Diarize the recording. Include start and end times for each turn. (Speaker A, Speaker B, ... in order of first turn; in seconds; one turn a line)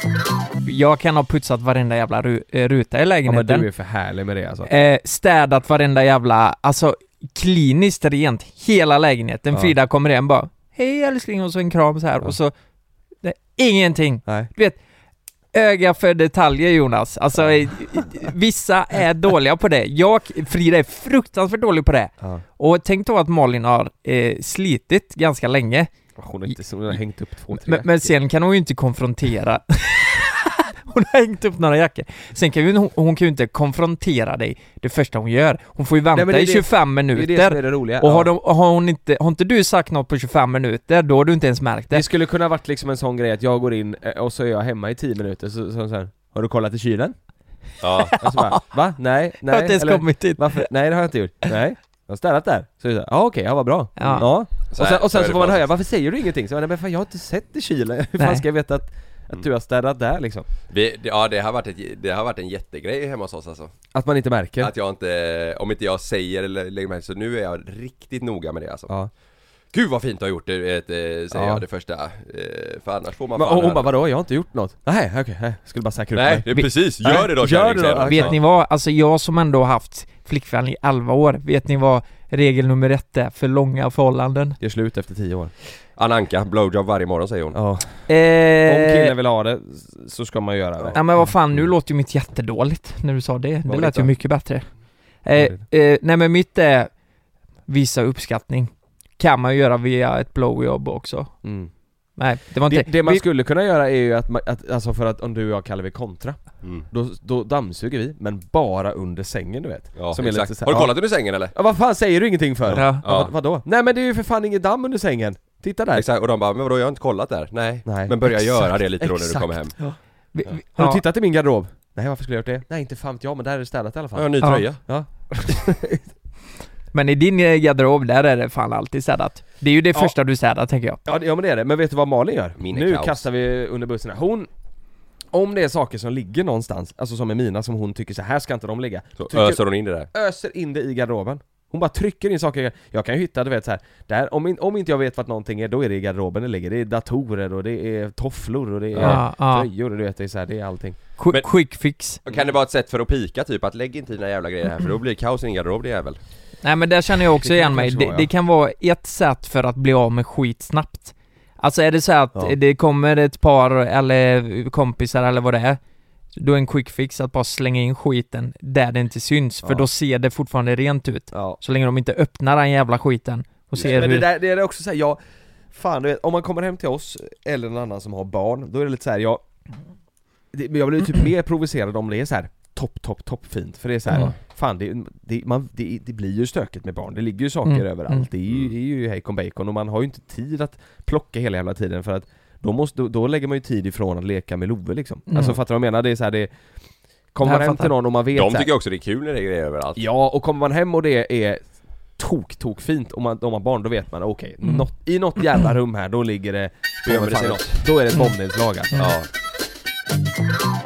Speaker A: 0.6-3.7
Speaker B: 3.2-4.7
Speaker A: 4.7-12.5
Speaker A: 13.2-14.8
Speaker A: 15.5-25.9
Speaker B: 26.2-27.9
Speaker A: 27.6-42.0
Speaker B: 36.1-38.3
Speaker B: 41.9-47.1
Speaker C: 47.8-48.1
Speaker A: 47.9-48.6
Speaker B: 48.2-60.5
Speaker A: 49.4-50.7
Speaker A: 54.0-54.3
Speaker C: 54.7-55.7
Speaker A: 58.2-58.4
Speaker C: 60.7-63.7
Speaker B: 63.9-64.7
Speaker C: 64.6-68.9
Speaker C: 69.7-73.9
Speaker B: 71.3-71.6
Speaker B: 73.3-78.3
Speaker C: 76.1-78.3
Speaker A: 78.0-84.6
Speaker B: 84.6-85.5
Speaker C: 86.0-87.5
Speaker B: 87.5-88.1
Speaker A: 88.1-89.1
Speaker B: 88.6-91.3
Speaker A: 90.9-94.6
Speaker C: 93.7-94.1
Speaker A: 95.2-96.9
Speaker B: 95.3-95.6
Speaker A: 97.7-101.3
Speaker B: 101.4-101.7
Speaker A: 102.2-103.2
Speaker B: 102.7-116.0
Speaker C: 110.0-111.5
Speaker A: 112.7-113.0
Speaker C: 113.0-113.3
Speaker C: 115.9-119.7
Speaker B: 117.8-120.0
Speaker A: 120.3-121.0
Speaker B: 120.7-126.0
Speaker C: 124.1-124.8
Speaker A: 126.9-131.0
Speaker B: 131.0-134.5
Speaker C: 132.6-133.2
Speaker B: 135.3-151.0
Speaker C: 139.2-140.1
Speaker C: 148.9-149.2
Speaker A: 149.0-149.7
Speaker A: 151.2-152.2
Speaker C: 152.2-156.2
Speaker A: 156.6-165.8
Speaker B: 157.4-158.3
Speaker A: 166.3-174.3
Speaker B: 171.3-171.6
Speaker B: 173.8-175.2
Speaker B: 175.7-179.4
Speaker B: 180.5-196.5
Speaker A: 184.1-184.3
Speaker A: 187.6-188.2
Speaker A: 195.3-195.6
Speaker B: 197.3-198.7
Speaker A: 197.4-197.9
Speaker C: 198.3-200.0
Speaker B: 199.9-201.6
Speaker B: 202.2-209.0
Speaker C: 207.1-207.8
Speaker C: 208.9-209.3